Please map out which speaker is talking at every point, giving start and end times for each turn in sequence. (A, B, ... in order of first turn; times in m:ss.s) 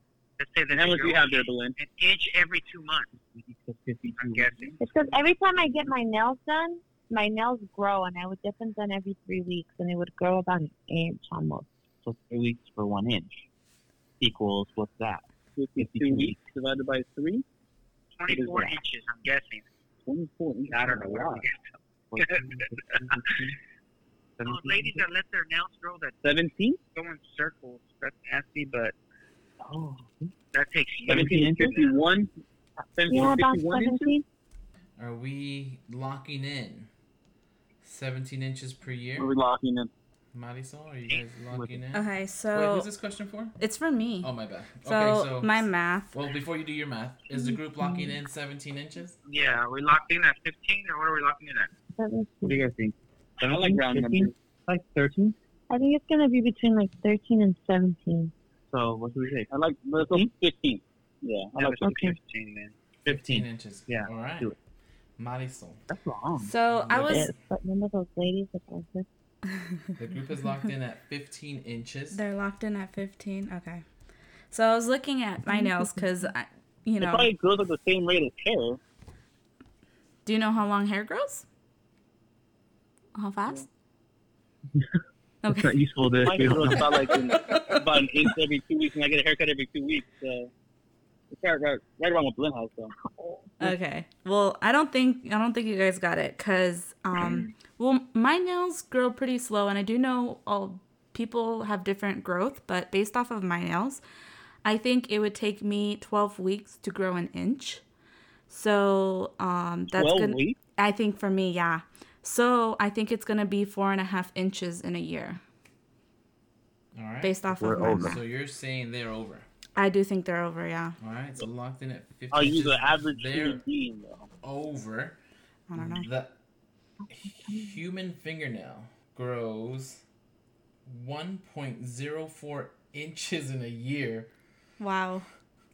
0:00.4-0:03.2 A
0:00.7-0:01.8 B
0:03.2-0:04.8 C
0:04.2-0:05.1 A
0:04.8-0:11.7 D
0:12.0-0:13.4 C
0:14.2-0:15.2 C
0:15.6-0:17.4 B
0:15.8-0:16.4 C
0:18.2-0:19.6 A
0:18.3-0:18.7 B
0:20.0-0:21.4 B
0:20.7-0:21.7 A
0:22.1-0:23.5 C
0:22.2-0:23.2 A
0:24.4-0:25.0 C
0:24.4-0:26.2 A
0:26.2-0:26.8 B
0:26.9-0:28.9 A
0:29.6-0:30.3 C
0:30.5-0:31.9 A
0:31.1-0:31.8 C
0:31.1-0:32.3 B
0:33.0-0:34.1 B
0:33.1-0:34.2 D
0:35.0-0:36.9 E
0:37.8-0:39.3 E
0:39.2-0:39.9 B
0:40.3-0:43.6 E
0:41.9-0:42.9 F
0:43.6-0:44.3 F
0:44.2-0:49.2 E
0:44.8-0:46.2 F
0:47.4-0:48.1 D
0:49.2-0:51.7 A
0:52.0-0:52.6 D
0:52.5-0:55.4 C
0:53.4-0:54.3 B
0:55.7-0:58.3 D
0:58.7-1:00.3 C
0:59.5-1:02.0 B
1:01.6-1:02.8 A
1:01.8-1:02.1 D
1:03.0-1:04.5 E
1:03.0-1:04.6 C
1:05.2-1:05.8 E
1:05.9-1:06.5 C
1:06.4-1:07.3 F
1:06.7-1:07.4 E
1:07.0-1:09.1 D
1:10.0-1:12.2 E
1:12.1-1:13.8 F
1:14.5-1:17.3 F
1:17.0-1:18.8 B
1:20.3-1:21.4 F
1:23.1-1:23.7 F
1:25.4-1:25.9 F
1:25.5-1:27.1 C
1:26.2-1:30.5 B
1:26.4-1:27.8 F
1:31.3-1:32.9 B
1:33.0-1:33.6 D
1:33.6-1:44.0 F
1:44.6-1:47.8 F
1:48.5-1:55.4 F
1:50.0-1:50.6 B
1:57.0-1:59.5 E
1:57.2-1:58.2 F
1:57.6-1:58.2 C
1:59.8-2:01.0 F
2:01.0-2:03.6 E
2:02.3-2:04.3 B
2:04.4-2:05.2 E
2:05.7-2:06.1 F
2:05.7-2:06.4 E
2:07.1-2:10.0 E
2:10.9-2:14.3 E
2:14.8-2:15.3 F